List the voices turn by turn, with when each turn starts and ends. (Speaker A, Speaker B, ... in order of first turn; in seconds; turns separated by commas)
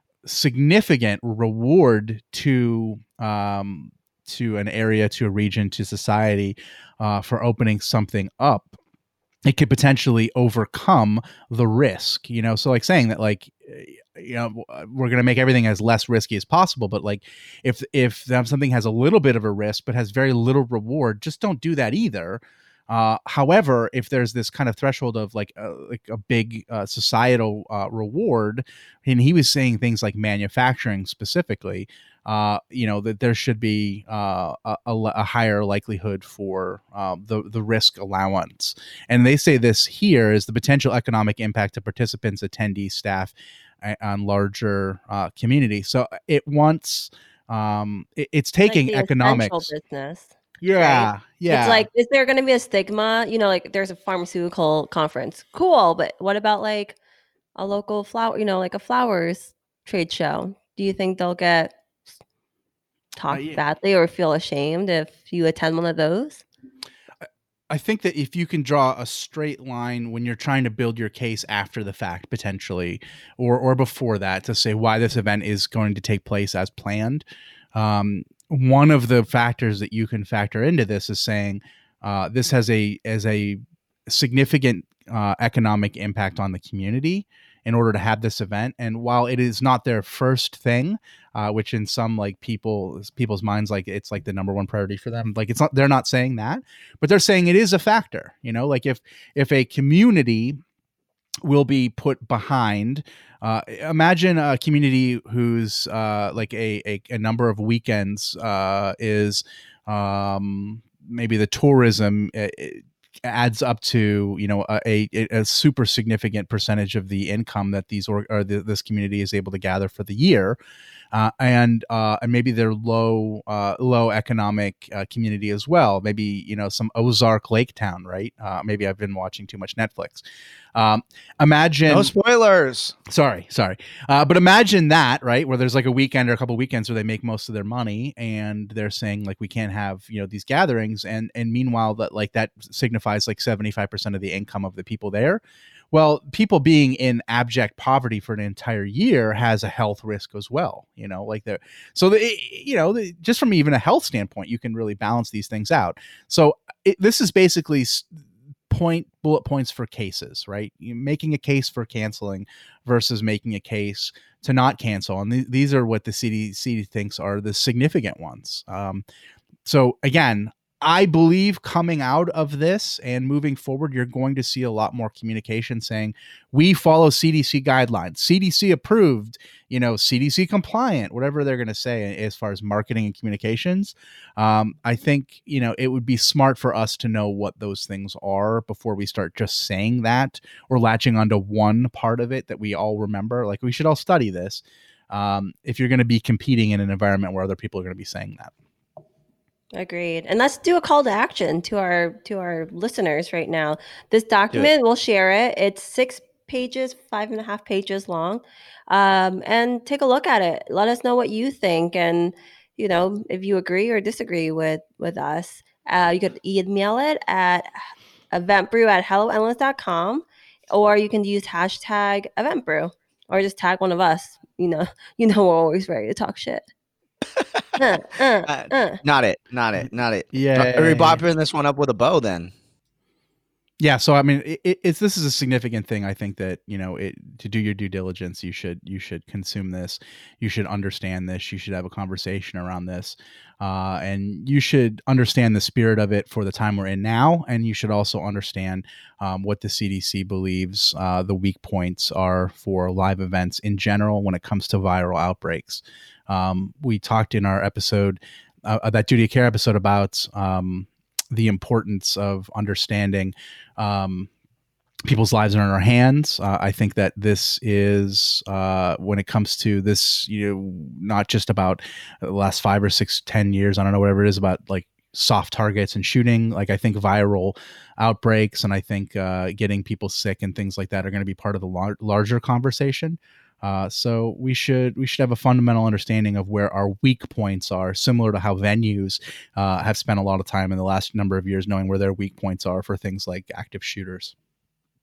Speaker A: 0.2-8.8, Speaker A: 9.4-49.7, Speaker B: 48.6-57.0, Speaker A: 50.6-51.9, Speaker B: 57.5-61.7, Speaker B: 63.2-66.4, Speaker A: 63.3-63.6, Speaker A: 67.2-100.6, Speaker A: 101.4-120.6, Speaker A: 121.1-130.2, Speaker A: 130.7-132.1, Speaker C: 131.9-133.0, Speaker A: 133.1-169.0, Speaker A: 169.6-198.5, Speaker B: 199.8-217.7, Speaker B: 218.3-226.6, Speaker C: 227.3-227.8, Speaker B: 227.8-229.0, Speaker C: 228.4-232.5, Speaker A: 229.8-231.2, Speaker A: 233.8-264.3, Speaker A: 265.1-294.3